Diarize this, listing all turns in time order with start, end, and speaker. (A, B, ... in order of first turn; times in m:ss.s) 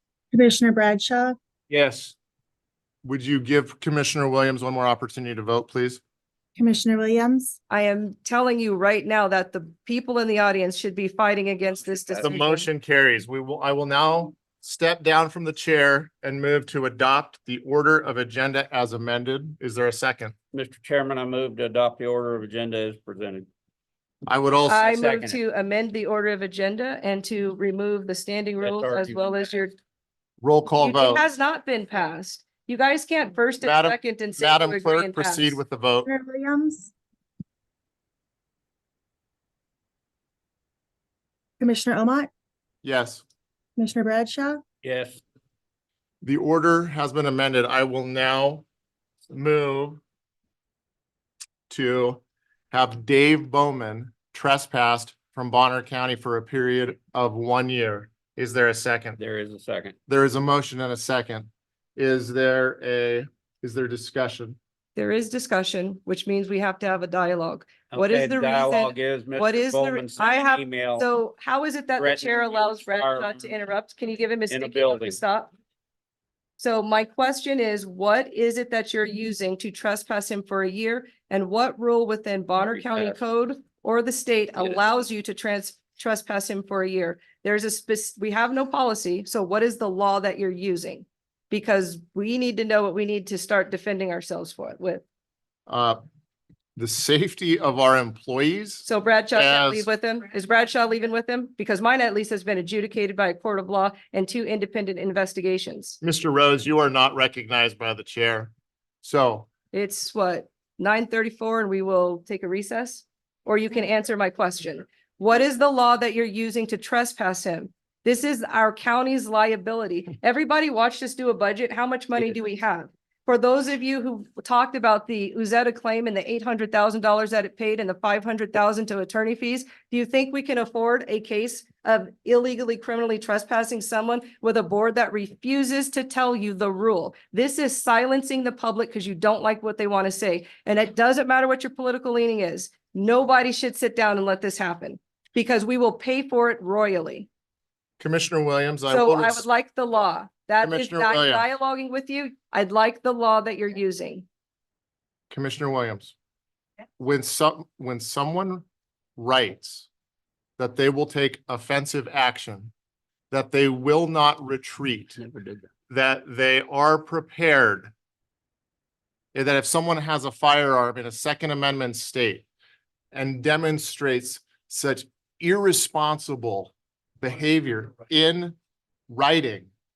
0:00.3-0:01.4 A
0:01.7-0:02.1 B
0:03.0-0:06.0 C
0:06.6-0:07.5 A
0:07.7-0:12.4 D
0:11.8-0:12.7 B
0:12.2-0:20.3 C
0:20.5-0:23.5 B
0:24.3-0:24.9 C
0:24.7-0:29.8 D
0:24.8-0:25.4 B
0:28.6-0:29.2 B
0:30.4-0:31.2 C
0:30.8-0:35.6 D
0:33.6-0:36.1 C
0:36.0-0:36.9 A
0:41.6-0:42.3 A
0:42.8-0:43.2 C
0:43.8-0:44.6 A
0:44.8-0:45.2 B
0:46.2-0:48.6 C
0:49.3-0:50.0 C
0:51.7-0:52.2 C
0:52.7-0:59.2 C
0:59.2-1:00.0 B
1:00.1-1:04.6 C
1:05.0-1:15.5 D
1:07.9-1:11.1 B
1:12.0-1:13.5 B
1:14.5-1:15.2 B
1:16.6-1:35.0 D
1:22.6-1:23.2 B
1:35.7-1:36.0 C
1:36.8-1:39.9 C
1:38.9-1:46.0 D
1:46.0-1:48.5 C
1:49.0-1:49.5 C
1:49.7-2:27.3 D
2:28.0-2:29.5 C
2:28.9-2:34.2 D
2:30.6-2:31.5 C
2:35.3-2:36.2 C
2:37.0-2:38.6 C
2:39.2-2:39.9 C
2:40.6-2:42.7 C
2:43.3-2:45.2 C
2:45.2-2:45.7 B
2:45.9-2:47.9 C
2:49.3-2:52.5 C
2:53.1-2:58.6 C
2:59.1-2:59.7 C